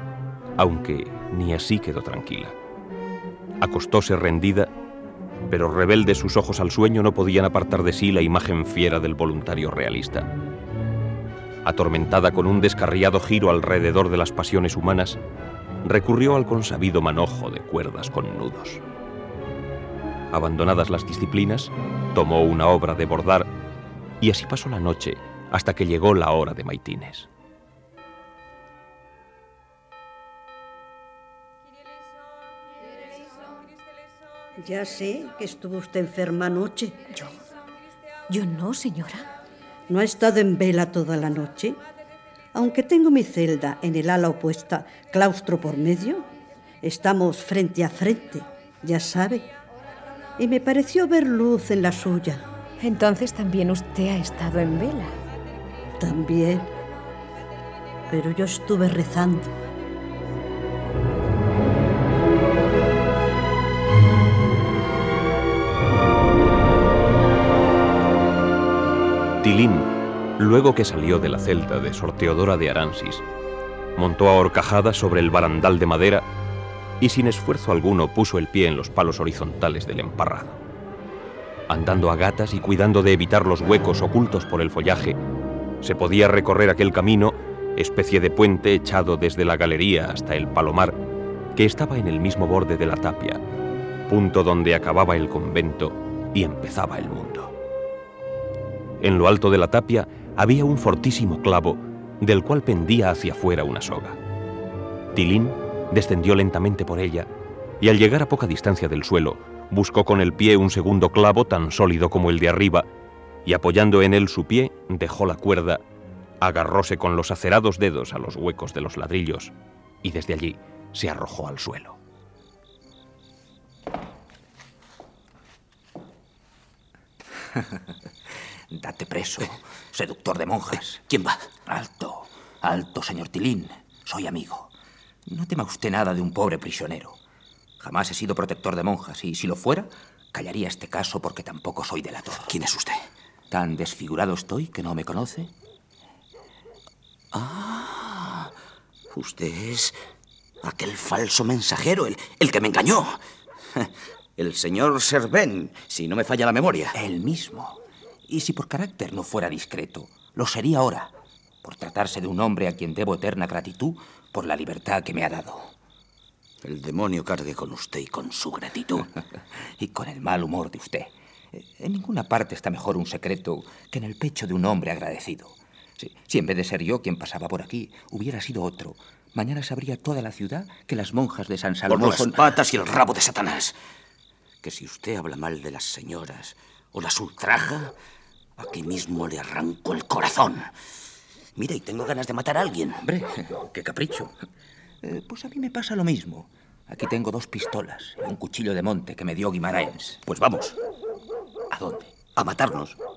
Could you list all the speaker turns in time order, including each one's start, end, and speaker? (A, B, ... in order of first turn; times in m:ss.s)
0:00.6-0:02.6 A
0:03.6-0:04.7 A
0:05.5-0:10.3 A
0:11.6-0:15.2 A
0:15.8-0:18.8 A
0:20.3-0:23.5 A
0:24.2-0:27.3 A
0:34.6-0:37.0 B
0:38.3-0:39.3 C
0:39.9-0:41.8 B
0:42.6-0:46.3 B
0:46.8-0:49.5 B
0:50.4-0:52.4 B
0:52.8-0:55.2 C
0:56.0-0:56.7 B
0:58.1-0:59.5 B
1:09.4-1:13.2 A
1:14.0-1:16.3 A
1:17.0-1:20.6 A
1:21.7-1:25.2 A
1:25.8-1:31.0 A
1:31.6-1:33.4 A
1:34.1-1:37.5 A
1:39.0-1:44.2 A
1:45.1-1:47.3 A
1:47.8-1:52.9 A
1:53.4-1:55.8 A
1:56.4-2:02.0 A
2:08.7-2:11.0 D
2:11.1-2:11.5 E
2:11.7-2:14.7 D
2:15.3-2:17.2 D
2:17.8-2:22.6 D
2:22.4-2:23.1 E
2:23.5-2:25.5 D
2:27.3-2:28.5 E
2:29.1-2:30.0 E
2:30.6-2:33.2 E
2:33.7-2:37.0 E
2:37.0-2:41.1 D
2:41.6-2:45.7 D
2:46.6-2:49.1 E
2:49.8-3:02.6 D
3:01.9-3:03.8 E
3:04.6-3:08.0 E
3:08.6-3:10.7 E
3:11.6-3:13.1 E
3:13.0-3:14.3 D
3:15.0-3:20.2 D
3:20.2-3:20.8 E
3:21.7-3:22.2 D
3:22.3-3:23.0 E